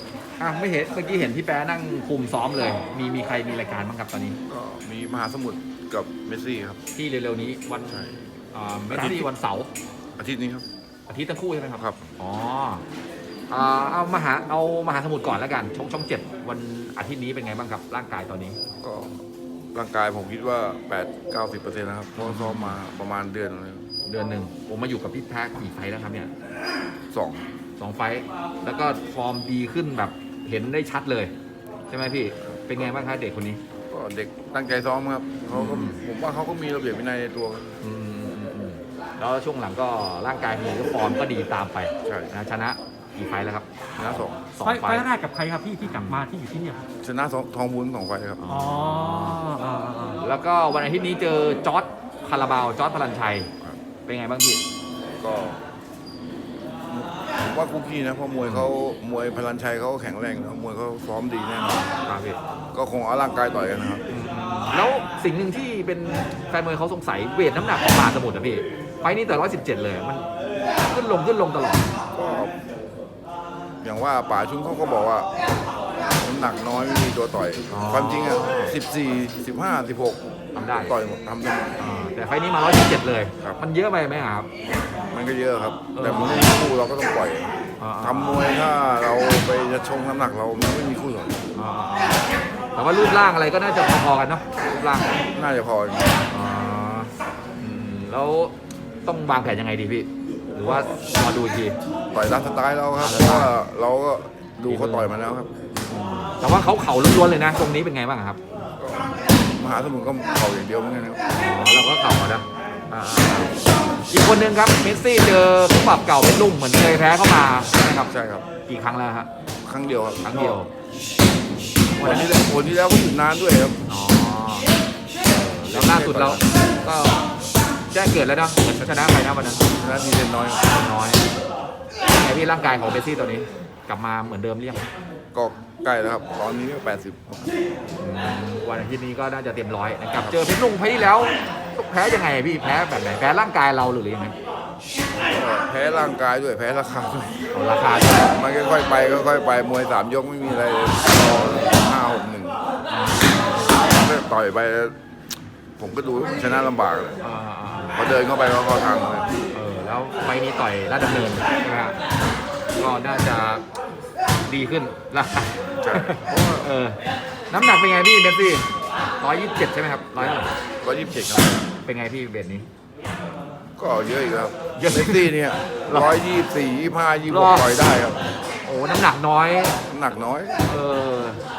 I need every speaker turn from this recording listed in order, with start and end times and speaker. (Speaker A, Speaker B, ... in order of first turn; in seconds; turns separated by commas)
Speaker A: 0.4-4.4, Speaker B: 4.5-6.8, Speaker A: 6.9-9.7, Speaker B: 7.9-8.2, Speaker B: 8.9-9.3, Speaker B: 10.2-10.7, Speaker A: 11.1-12.8, Speaker A: 13.5-18.6, Speaker B: 18.8-19.2, Speaker B: 19.7-23.9, Speaker A: 22.1-22.8, Speaker A: 24.0-26.3, Speaker B: 27.1-27.4, Speaker A: 27.8-31.3, Speaker A: 31.9-33.6, Speaker B: 32.5-32.9, Speaker B: 33.9-37.8, Speaker A: 35.5-36.0, Speaker A: 37.8-45.0, Speaker B: 42.0-42.3, Speaker B: 44.0-44.4, Speaker C: 44.6-46.8, Speaker A: 45.8-46.2, Speaker B: 47.0-48.4, Speaker A: 48.4-49.4, Speaker C: 48.5-50.2, Speaker A: 50.2-53.5, Speaker A: 54.0-54.6, Speaker B: 55.2-55.6, Speaker B: 56.9-61.9, Speaker A: 58.4-58.7, Speaker A: 62.0-62.4, Speaker B: 62.7-64.0, Speaker A: 64.1-70.2, Speaker A: 70.8-71.9, Speaker B: 72.1-72.5, Speaker B: 73.8-75.3, Speaker B: 76.1-81.8, Speaker A: 77.7-78.7, Speaker A: 80.5-80.9, Speaker A: 81.8-84.5, Speaker B: 85.1-91.4, Speaker A: 85.9-86.5, Speaker A: 87.8-88.5, Speaker A: 91.5-95.2, Speaker B: 95.3-96.2, Speaker A: 96.3-98.5, Speaker A: 99.0-101.8, Speaker B: 100.6-100.9, Speaker B: 102.1-105.5, Speaker A: 103.0-103.5, Speaker A: 104.7-105.1, Speaker A: 105.8-108.4, Speaker B: 108.8-111.2, Speaker A: 111.3-113.5, Speaker A: 114.1-118.1, Speaker B: 118.1-118.4, Speaker A: 118.7-119.3, Speaker B: 119.6-120.6, Speaker A: 120.2-120.7, Speaker B: 121.9-123.8, Speaker A: 122.0-122.3, Speaker A: 123.9-124.7, Speaker A: 125.3-127.2, Speaker B: 125.7-126.5, Speaker A: 127.9-129.7, Speaker B: 129.8-130.6, Speaker A: 130.7-131.2, Speaker A: 132.1-134.9, Speaker B: 135.3-137.5, Speaker A: 138.0-144.3, Speaker B: 145.3-147.4, Speaker A: 147.5-148.3, Speaker B: 148.2-152.6, Speaker A: 151.1-151.7, Speaker A: 152.9-153.7, Speaker B: 153.7-154.9, Speaker B: 155.8-157.2, Speaker A: 157.2-158.0, Speaker B: 157.9-159.3, Speaker A: 159.5-162.0, Speaker A: 162.7-163.6, Speaker A: 164.4-167.0, Speaker B: 165.8-166.7, Speaker A: 167.5-170.5, Speaker B: 170.2-171.6, Speaker A: 171.8-172.7, Speaker B: 173.8-178.2, Speaker A: 174.8-175.3, Speaker A: 177.3-177.7, Speaker A: 178.6-179.8, Speaker B: 179.9-180.6, Speaker A: 180.6-181.4